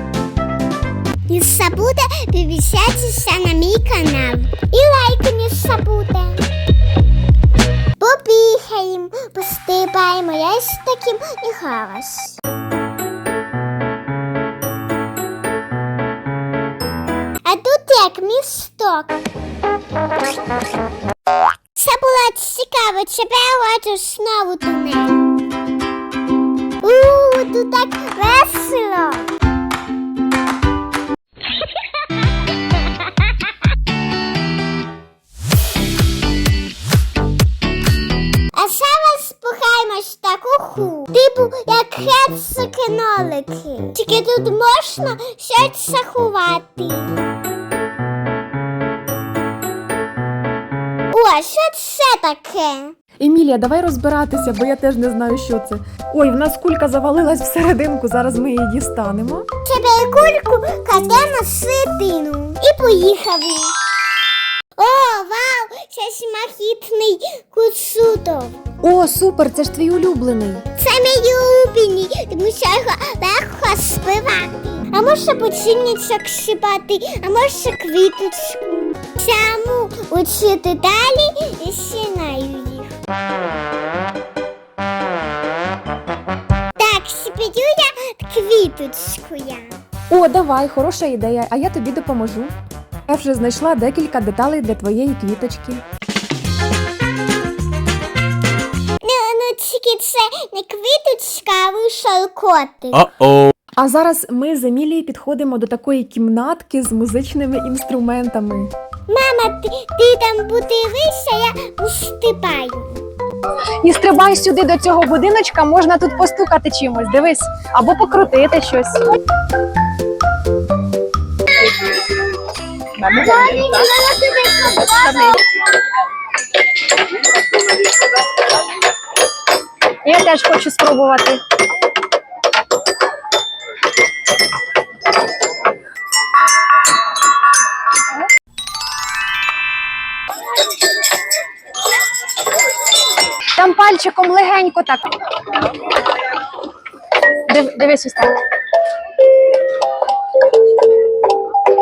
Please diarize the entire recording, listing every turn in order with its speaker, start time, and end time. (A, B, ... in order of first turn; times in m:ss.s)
0:01.3-0:06.5 A
0:08.0-0:12.4 A
0:17.4-0:19.2 A
0:21.7-0:25.2 A
0:26.8-0:29.3 A
0:38.5-0:47.2 A
0:51.1-0:53.0 A
0:53.2-0:59.5 B
0:59.6-1:03.7 A
1:04.8-1:08.6 A
1:08.8-1:10.6 B
1:10.8-1:23.0 A
1:26.8-1:29.8 A
1:30.1-1:32.5 B
1:33.1-1:35.8 B
1:39.0-1:43.1 A
1:43.8-1:48.7 B
1:49.1-1:53.0 A
1:53.8-1:59.1 C
2:03.1-2:05.4 A
2:10.0-2:11.4 C
2:23.5-2:25.0 C
2:27.4-2:28.3 C